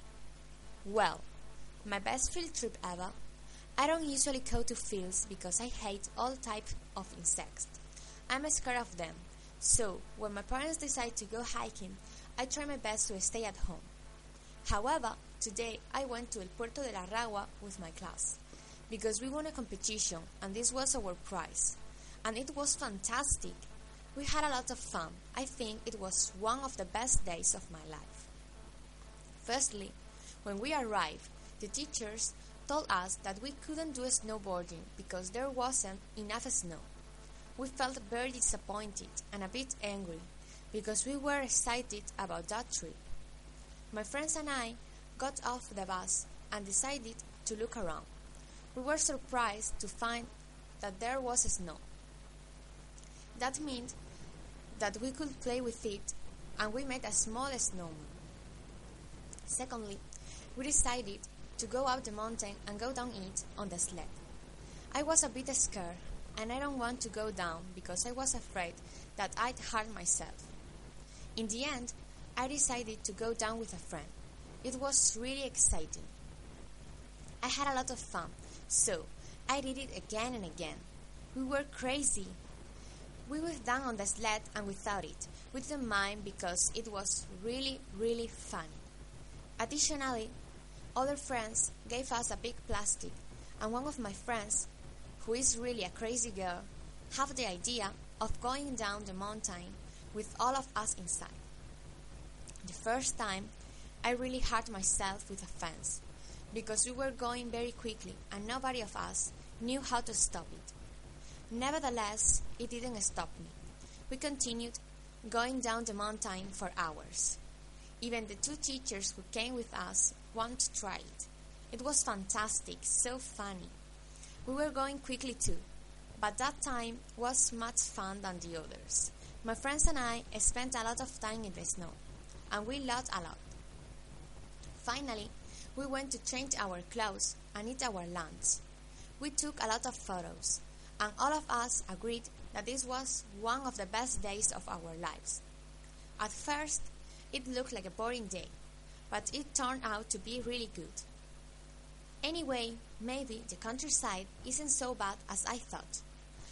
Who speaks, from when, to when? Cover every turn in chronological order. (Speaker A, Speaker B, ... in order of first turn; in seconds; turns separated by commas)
Speaker A: 0.8-1.2, Speaker A: 1.8-3.1, Speaker A: 3.8-13.9, Speaker A: 14.6-28.3, Speaker A: 29.4-36.9, Speaker A: 37.6-43.0, Speaker A: 43.9-48.1, Speaker A: 48.7-51.8, Speaker A: 53.3-54.0, Speaker A: 54.7-58.2, Speaker A: 59.5-60.0, Speaker A: 60.5-64.2, Speaker A: 64.9-70.5, Speaker A: 71.3-76.1, Speaker A: 77.4-82.4, Speaker A: 83.2-88.8, Speaker A: 89.6-90.3, Speaker A: 90.9-101.4, Speaker A: 102.6-110.7, Speaker A: 111.5-113.6, Speaker A: 114.1-117.4, Speaker A: 118.0-123.7, Speaker A: 124.4-125.6, Speaker A: 126.2-132.0, Speaker A: 132.5-133.5, Speaker A: 134.8-138.6, Speaker A: 139.2-145.4, Speaker A: 146.2-148.5, Speaker A: 149.1-151.1, Speaker A: 152.2-156.0